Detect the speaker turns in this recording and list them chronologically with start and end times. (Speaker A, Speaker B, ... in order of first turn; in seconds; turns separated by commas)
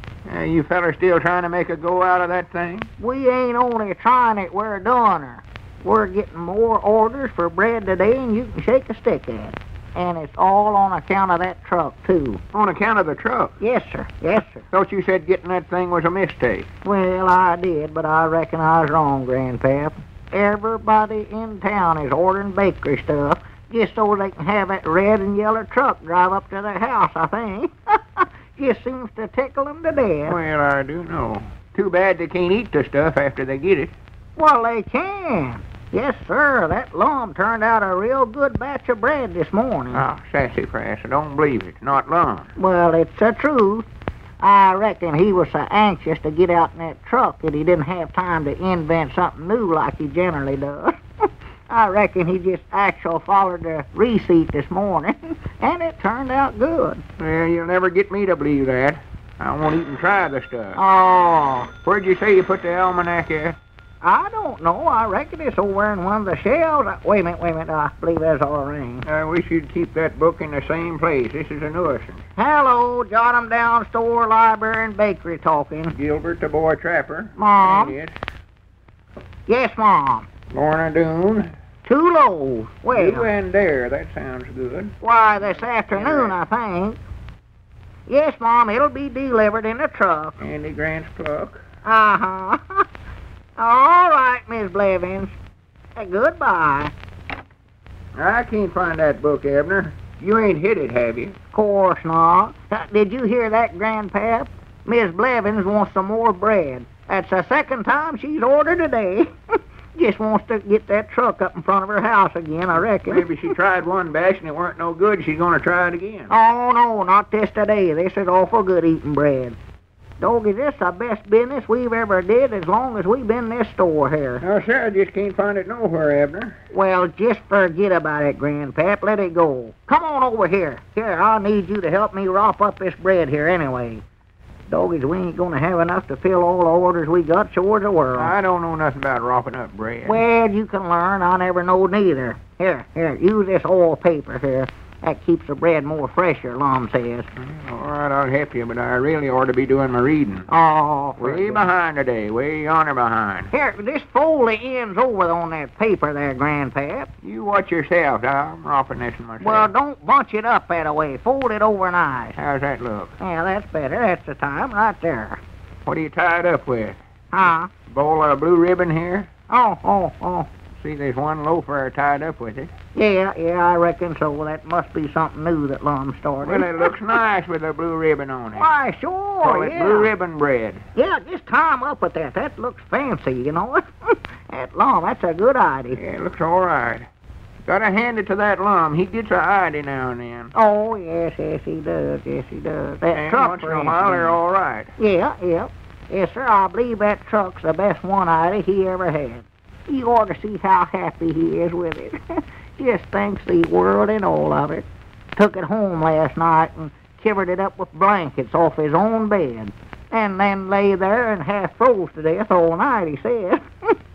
Speaker A: 0.3-2.9, Speaker B: 3.0-12.4, Speaker A: 12.5-13.5, Speaker B: 13.6-14.7, Speaker A: 14.7-16.7, Speaker B: 16.8-30.4, Speaker A: 30.3-33.9, Speaker B: 34.4-40.0, Speaker A: 39.9-42.5, Speaker B: 42.6-43.9, Speaker B: 44.4-51.0, Speaker B: 51.7-57.0, Speaker A: 57.2-60.8, Speaker B: 60.8-61.7, Speaker A: 61.8-63.6, Speaker B: 64.0-69.0, Speaker A: 69.1-72.2, Speaker B: 72.4-75.9, Speaker A: 76.0-78.2, Speaker B: 77.4-78.0, Speaker B: 79.5-80.3, Speaker A: 80.5-81.5, Speaker B: 81.8-83.3, Speaker A: 82.9-84.9, Speaker B: 85.0-87.0, Speaker A: 85.4-86.3, Speaker B: 88.1-90.3, Speaker A: 90.4-91.6, Speaker B: 91.8-92.8, Speaker B: 93.6-95.3, Speaker B: 96.0-96.9, Speaker A: 98.2-101.4, Speaker B: 101.5-109.3, Speaker B: 110.0-113.5, Speaker A: 113.1-116.3, Speaker B: 116.3-119.6, Speaker B: 120.2-124.4, Speaker A: 124.4-126.5, Speaker B: 126.7-134.0, Speaker B: 134.7-138.3, Speaker A: 138.2-140.2, Speaker B: 140.1-147.3, Speaker A: 147.4-150.5, Speaker B: 150.5-151.6, Speaker A: 151.2-153.5, Speaker B: 153.5-157.1, Speaker A: 157.2-159.7, Speaker B: 159.4-162.4, Speaker A: 162.4-163.1, Speaker B: 163.2-165.4, Speaker A: 165.9-167.0, Speaker B: 167.3-167.7, Speaker A: 167.9-169.3, Speaker B: 169.5-170.5, Speaker A: 170.8-172.7, Speaker B: 172.9-176.9, Speaker A: 176.4-178.7, Speaker B: 178.5-180.1, Speaker A: 179.4-180.8, Speaker B: 180.9-183.8, Speaker B: 184.5-186.0, Speaker A: 186.0-187.1, Speaker A: 187.7-190.5, Speaker B: 190.5-194.3, Speaker A: 193.1-194.9, Speaker B: 195.0-204.8, Speaker B: 205.4-213.6